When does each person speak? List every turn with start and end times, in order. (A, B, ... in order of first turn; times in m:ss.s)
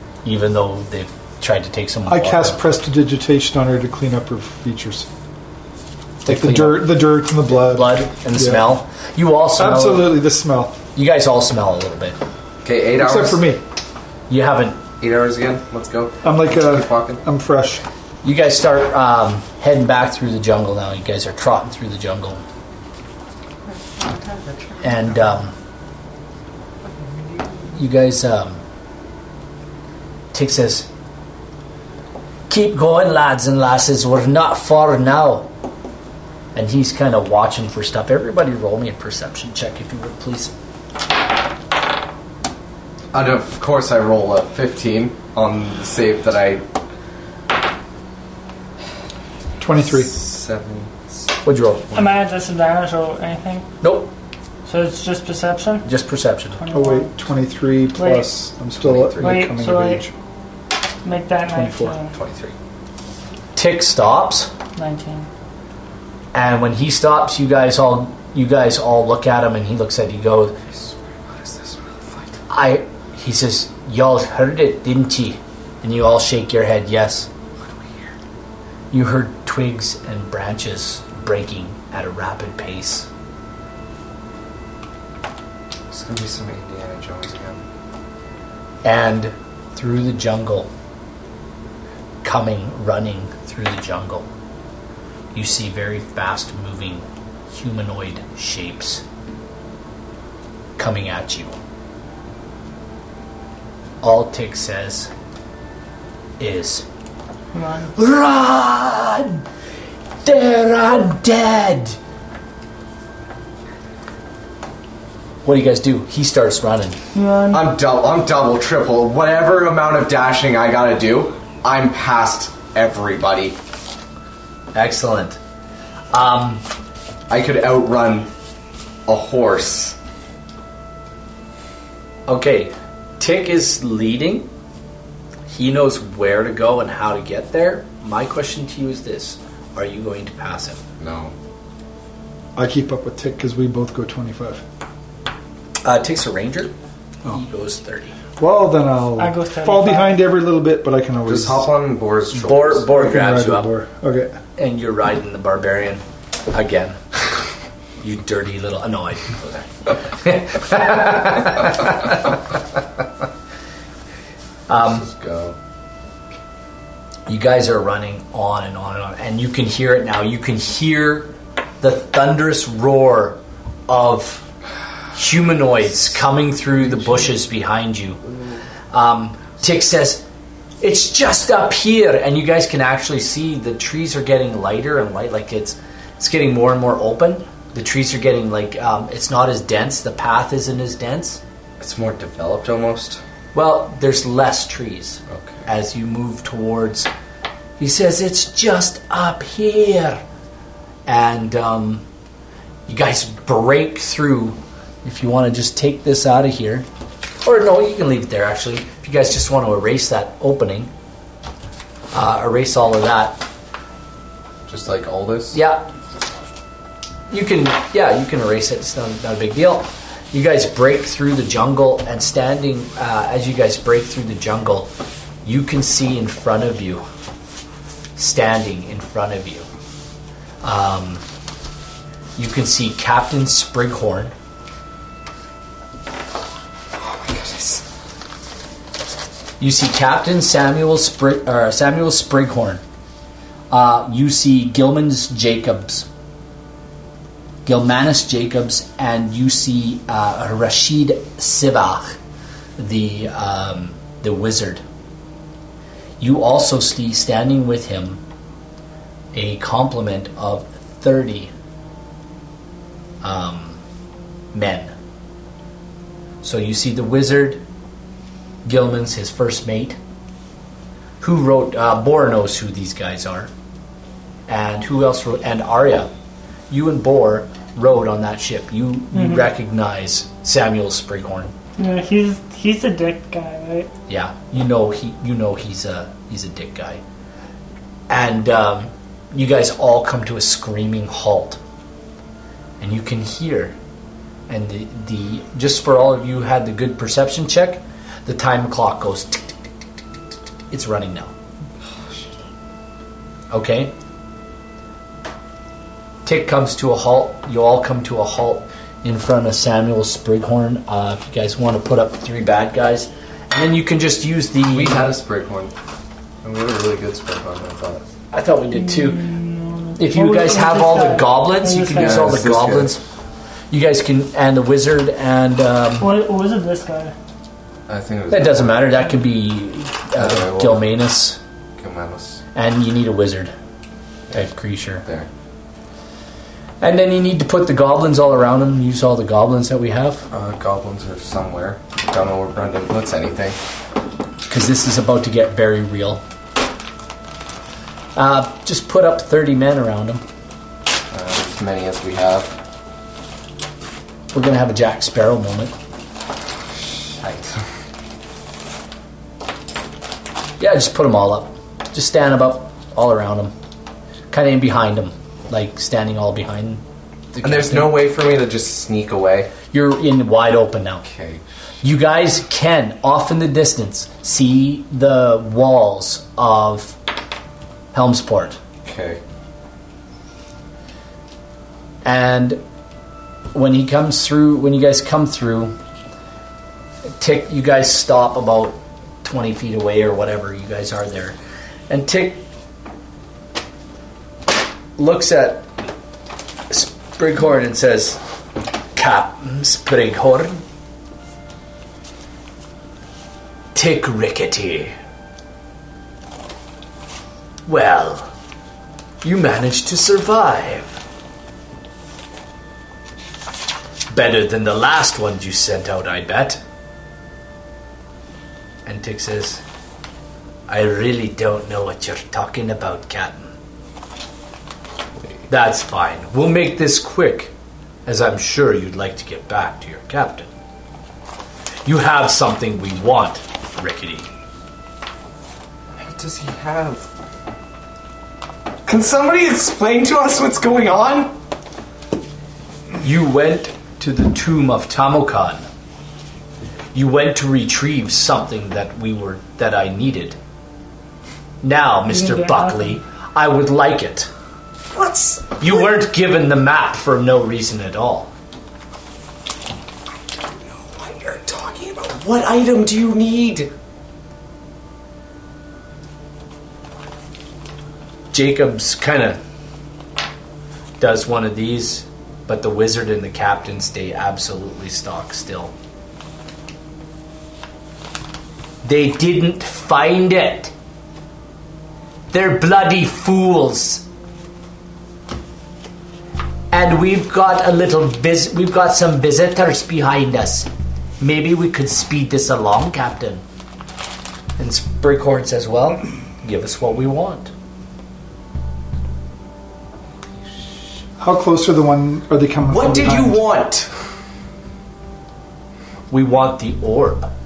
0:00.2-0:02.6 A
0:02.1-0:05.1 B
0:06.2-0:10.2 A
0:06.2-0:08.7 B
0:09.6-0:10.8 B
0:10.9-0:12.2 A
0:12.6-0:13.4 C
0:12.9-0:13.6 B
0:14.3-0:14.8 A
0:15.0-0:17.2 C
0:16.2-0:17.8 B
0:18.2-0:22.4 A
0:24.8-0:25.5 A
0:27.7-0:28.6 A
0:30.3-0:30.9 A
0:32.5-0:35.5 A
0:36.5-0:40.5 A
0:43.1-0:46.6 C
0:49.6-0:50.1 B
0:49.9-0:51.3 C
0:51.4-0:51.9 A
0:51.9-0:53.7 D
0:53.8-0:54.1 A
0:54.6-0:55.8 D
0:55.8-0:56.6 A
0:56.6-0:57.1 D
0:56.7-1:00.1 B
0:57.9-0:58.3 D
0:58.8-0:59.5 C
0:59.2-1:00.0 D
1:01.0-1:02.2 D
1:01.5-1:02.0 B
1:02.1-1:02.5 C
1:03.6-1:04.5 A
1:04.8-1:05.3 D
1:06.3-1:10.6 A
1:10.8-1:12.3 C
1:12.5-1:17.3 A
1:18.9-1:23.1 A
1:25.9-1:27.6 C
1:28.8-1:30.7 A
1:32.2-1:34.3 A
1:35.3-1:39.0 A
1:40.8-1:41.6 A
1:44.0-1:45.1 A
1:46.4-1:46.8 A
1:47.5-1:47.9 D
1:48.0-1:49.4 A
1:50.2-1:52.0 A
1:55.4-1:57.0 A
1:57.1-1:57.7 D
1:57.5-2:03.6 C
2:04.7-2:05.4 A
2:06.1-2:06.6 A
2:07.3-2:08.3 C
2:09.1-2:10.0 C
2:12.3-2:14.5 A
2:15.5-2:20.8 A
2:21.0-2:21.3 C
2:22.6-2:24.6 B
2:25.8-2:26.7 A
2:27.3-2:28.1 A
2:28.4-2:31.7 B
2:29.2-2:30.2 D
2:31.3-2:32.9 C
2:32.5-2:33.7 A
2:32.9-2:34.4 B
2:34.6-2:37.0 A
2:38.0-2:42.2 A
2:44.7-2:45.0 A
2:44.7-2:45.6 C
2:47.3-2:54.4 A
2:55.1-2:58.2 A
2:58.9-3:00.2 A
3:00.8-3:11.4 A
3:11.8-3:13.2 C
3:13.5-3:17.1 A
3:15.3-3:15.7 C
3:17.8-3:20.2 A
3:21.1-3:22.0 A
3:22.9-3:26.8 A
3:27.4-3:30.9 A
3:32.1-3:33.4 A
3:34.7-3:35.6 C
3:35.5-3:35.8 A
3:37.3-3:44.9 A
3:45.4-3:47.0 A
3:48.2-3:49.7 A
3:50.6-3:51.2 A
3:52.4-3:54.3 A
3:57.0-3:57.8 C
3:59.6-4:02.8 A
4:03.7-4:06.1 A
4:07.6-4:12.2 A
4:12.8-4:14.8 A
4:16.2-4:18.2 A
4:19.3-4:21.5 A
4:23.2-4:23.8 A
4:24.5-4:24.9 A
4:26.4-4:27.6 A
4:28.6-4:30.0 A
4:31.2-4:33.5 A
4:34.5-4:36.1 A
4:36.7-4:41.5 A
4:39.1-4:39.4 D
4:41.8-4:43.9 D
4:44.1-4:47.0 A
4:48.1-4:51.6 A
4:52.8-4:53.7 A
4:54.5-4:59.6 A
5:00.7-5:01.3 A
5:03.5-5:03.9 A
5:06.2-5:15.2 A
5:14.7-5:15.7 C
5:16.4-5:18.0 C
5:18.3-5:19.3 A
5:18.8-5:22.4 D
5:20.0-5:23.0 A
5:21.8-5:23.0 C
5:23.7-5:26.1 A
5:26.0-5:27.1 D
5:27.9-5:28.8 C
5:28.3-5:31.4 A
5:30.2-5:30.9 C
5:31.8-5:32.4 C
5:32.5-5:33.5 A
5:34.3-5:35.0 A
5:35.0-5:35.3 C
5:36.8-5:40.3 A
5:40.3-5:43.6 C
5:44.5-5:46.2 A
5:48.2-5:50.2 A
5:51.1-5:52.6 C
5:54.3-5:55.7 A
5:57.2-5:57.5 A
6:00.6-6:03.5 A
6:04.3-6:06.8 A
6:07.3-6:08.0 A
6:07.4-6:09.5 C
6:09.7-6:11.0 A
6:11.0-6:11.4 C
6:11.8-6:17.0 A
6:17.9-6:18.6 A
6:18.8-6:19.2 C
6:22.0-6:22.6 A
6:23.5-6:25.8 A
6:27.2-6:31.4 A
6:31.9-6:32.4 A
6:35.0-6:35.7 A
6:36.7-6:38.2 A
6:38.9-6:40.6 A
6:43.7-6:44.9 A
6:47.6-6:48.3 A
6:49.2-6:51.0 A
6:54.1-6:56.6 A
6:58.8-6:59.6 A
7:00.7-7:03.5 A
7:05.5-7:07.5 A
7:08.0-7:10.5 A
7:11.8-7:14.3 A
7:16.0-7:17.1 C
7:18.8-7:21.3 C
7:23.0-7:25.6 A
7:26.9-7:30.4 A
7:31.6-7:34.3 A
7:32.1-7:33.0 D
7:34.9-7:35.9 C
7:35.6-7:38.3 A
7:40.3-7:43.7 C
7:48.3-7:49.4 A
7:51.0-7:55.7 A
7:58.8-8:00.7 A
8:02.3-8:04.0 A
8:06.7-8:10.7 A
8:11.2-8:13.4 A
8:14.6-8:17.5 A
8:21.2-8:23.4 B
8:22.7-8:23.9 C
8:26.1-8:27.3 A